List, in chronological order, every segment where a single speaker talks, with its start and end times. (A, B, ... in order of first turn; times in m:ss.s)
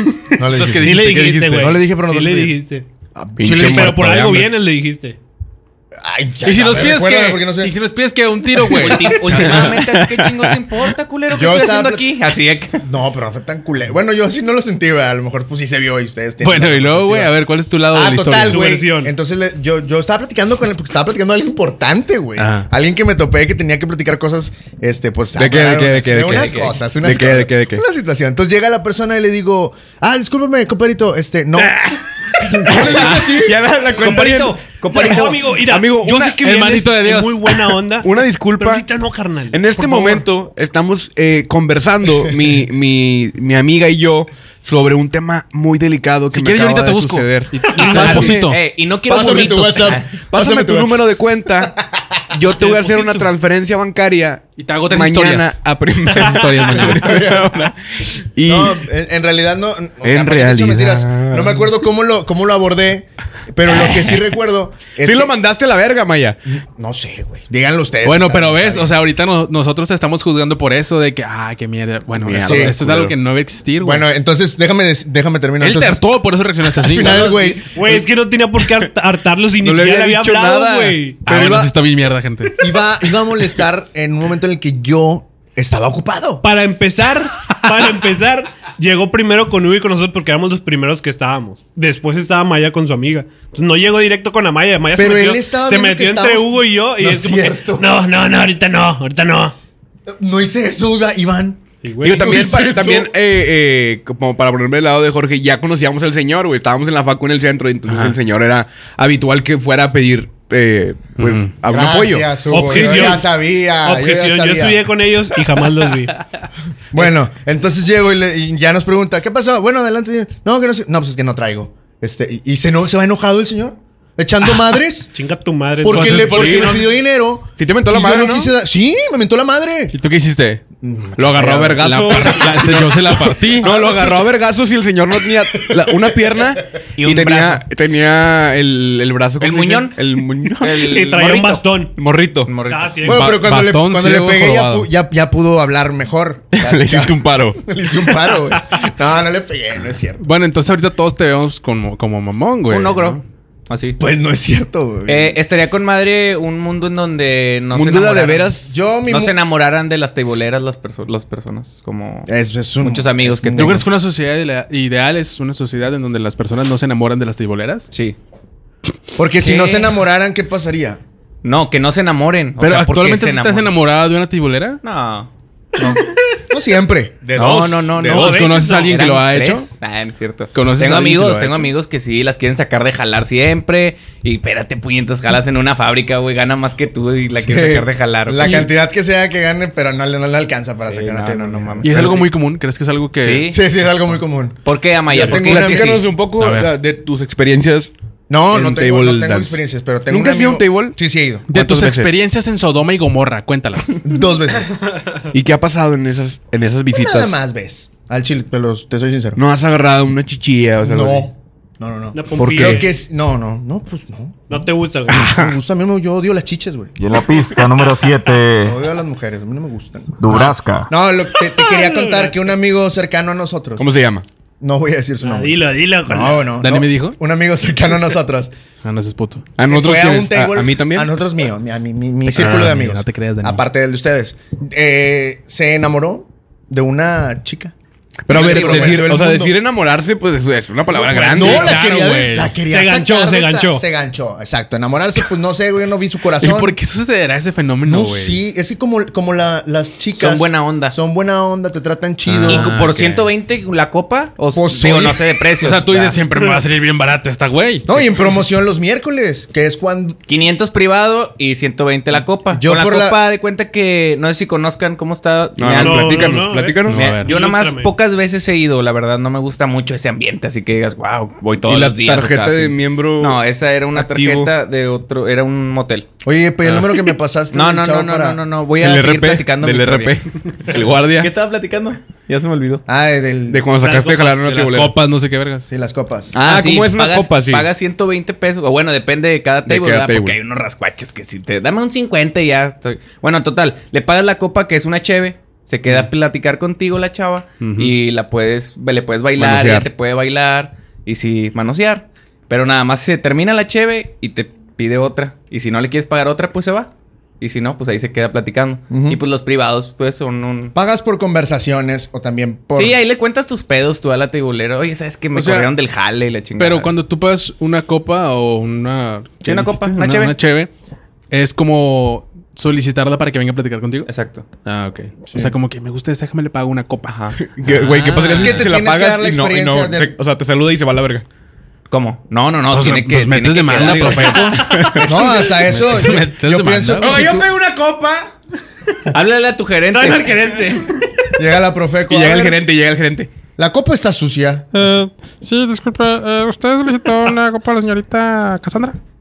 0:00.3-0:01.0 A
0:00.4-0:01.7 B
0:00.8-0:02.9 C
0:01.5-0:02.6 A
0:03.2-0:04.0 A
0:03.4-0:04.5 D
0:03.5-0:05.2 C
0:06.0-0:07.8 A
0:06.4-0:09.8 B
0:08.6-0:09.2 A
0:08.6-0:12.8 E
0:11.3-0:12.1 A
0:12.8-0:17.3 A
0:16.4-0:18.7 B
0:17.9-0:31.8 A
0:18.5-0:19.1 C
0:22.4-0:22.7 B
0:25.4-0:27.8 D
0:26.4-0:26.7 E
0:32.4-0:33.6 A
0:32.7-0:36.4 D
0:34.0-0:35.5 E
0:34.0-0:40.3 C
0:36.4-0:37.7 B
0:38.0-0:38.9 D
0:39.5-0:48.5 D
0:46.3-0:48.6 B
0:47.8-0:48.3 C
0:48.0-0:50.2 E
0:49.1-0:51.0 A
0:49.1-0:51.8 D
0:51.6-0:52.4 A
0:52.3-0:58.8 D
0:52.6-0:53.3 B
0:54.6-0:57.1 B
0:56.9-0:57.6 A
0:58.5-1:05.3 A
1:00.0-1:01.7 D
1:05.0-1:06.4 D
1:06.5-1:08.9 A
1:08.0-1:14.1 B
1:12.1-1:13.2 D
1:12.4-1:12.8 A
1:13.8-1:16.0 A
1:15.6-1:17.2 B
1:16.8-1:17.8 A
1:16.9-1:21.2 C
1:19.6-1:21.0 D
1:21.3-1:21.7 A
1:21.3-1:22.6 B
1:22.6-1:26.4 A
1:26.4-1:39.6 C
1:35.0-1:38.0 A
1:40.1-1:43.1 A
1:41.8-1:42.4 C
1:42.0-1:53.1 D
1:47.9-1:48.2 B
1:51.2-1:51.5 B
1:51.7-1:54.8 A
1:52.5-1:53.3 C
1:53.8-1:56.3 C
1:56.9-2:05.1 A
2:05.1-2:06.9 C
2:05.8-2:09.9 A
2:05.9-2:06.8 B
2:06.3-2:06.8 D
2:07.6-2:08.5 D
2:09.9-2:10.6 B
2:10.8-2:11.8 A
2:11.2-2:13.0 D
2:11.8-2:13.7 B
2:11.9-2:12.4 C
2:13.0-2:14.3 A
2:13.6-2:20.8 D
2:15.6-2:16.1 A
2:17.0-2:17.6 E
2:19.4-2:21.6 E
2:20.6-2:22.0 C
2:22.0-2:22.5 D
2:22.5-2:23.0 E
2:22.7-2:23.3 C
2:23.0-2:30.3 A
2:23.1-2:24.9 B
2:26.5-2:27.6 D
2:30.2-2:33.2 B
2:32.7-2:34.0 E
2:34.0-2:35.4 A
2:35.1-2:38.5 E
2:37.7-2:38.7 D
2:38.7-2:39.4 A
2:39.1-2:42.3 E
2:42.3-2:43.8 A
2:42.8-2:43.8 E
2:43.6-2:47.9 B
2:47.9-2:48.2 E
2:49.2-2:51.0 A
2:49.4-2:49.9 E
2:51.4-2:53.7 E
2:52.6-2:54.8 B
2:54.8-2:55.3 E
2:56.5-2:57.2 A
2:57.2-2:58.5 D
2:57.4-3:08.7 E
2:58.0-2:59.0 C
2:58.0-2:59.7 B
3:00.5-3:01.7 B
3:07.4-3:12.2 A
3:08.4-3:08.7 B
3:10.8-3:12.3 E
3:11.8-3:13.6 B
3:13.2-3:13.6 E
3:13.5-3:16.0 A
3:14.6-3:16.0 E
3:15.1-3:17.9 D
3:16.4-3:16.7 B
3:18.3-3:21.5 A
3:18.5-3:21.0 D
3:21.5-3:24.0 B
3:21.5-3:22.1 D
3:24.0-3:24.8 A
3:25.3-3:27.3 D
3:27.0-3:29.4 A
3:29.4-3:31.3 D
3:30.8-3:34.4 A
3:32.1-3:32.9 C
3:32.4-3:32.8 D
3:34.5-3:35.3 C
3:35.2-3:36.9 A
3:35.2-3:35.5 D
3:37.0-3:38.8 F
3:38.6-3:43.9 A
3:40.2-3:40.9 F
3:41.5-3:42.4 C
3:43.8-3:44.2 D
3:44.6-3:48.5 A
3:45.2-3:46.5 C
3:46.6-3:47.2 B
3:48.8-3:49.5 B
3:49.6-3:51.1 D
3:49.7-3:57.7 A
3:52.3-3:53.6 B
3:58.3-4:01.8 D
3:58.3-3:59.5 A
3:58.4-3:59.0 E
4:00.9-4:01.8 C
4:01.3-4:06.8 A
4:01.4-4:02.6 B
4:02.7-4:03.8 C
4:06.4-4:08.4 B
4:07.8-4:12.7 A
4:10.1-4:11.0 E
4:12.3-4:13.3 B
4:12.5-4:16.2 E
4:14.5-4:15.2 A
4:15.6-4:17.9 B
4:17.9-4:20.2 A
4:20.3-4:26.3 E
4:22.5-4:23.2 A
4:25.6-4:27.2 D
4:25.8-4:27.9 C
4:26.9-4:27.3 B
4:27.0-4:36.1 E
4:31.6-4:33.4 D
4:33.9-4:34.5 D
4:36.2-4:38.4 A
4:37.5-4:40.2 E
4:38.8-4:41.3 D
4:41.2-4:42.8 E
4:42.9-4:43.7 A
4:43.5-4:44.9 D
4:43.8-4:44.6 C
4:44.5-4:45.7 B
4:45.7-4:46.4 A
4:46.4-5:10.8 E
4:46.4-4:47.7 D
4:49.7-4:50.4 D
4:57.6-4:57.9 B
4:59.4-4:59.9 D
5:08.9-5:09.2 A
5:10.8-5:13.0 A
5:12.8-5:16.9 E
5:15.3-5:15.7 B
5:16.6-5:20.7 B
5:19.4-5:20.4 E
5:21.3-5:24.1 B
5:24.1-5:24.5 E
5:24.6-5:27.2 B
5:27.1-5:28.6 E
5:27.4-5:31.2 D
5:27.8-5:28.3 B
5:28.3-5:30.1 A
5:31.9-5:34.6 E
5:32.7-5:37.2 B
5:33.8-5:35.2 D
5:35.0-5:37.5 A
5:37.0-5:38.3 D
5:39.1-5:40.7 E
5:39.9-5:41.3 C
5:41.4-5:42.6 A
5:42.1-5:43.3 D
5:43.6-5:45.0 A
5:44.7-5:49.0 B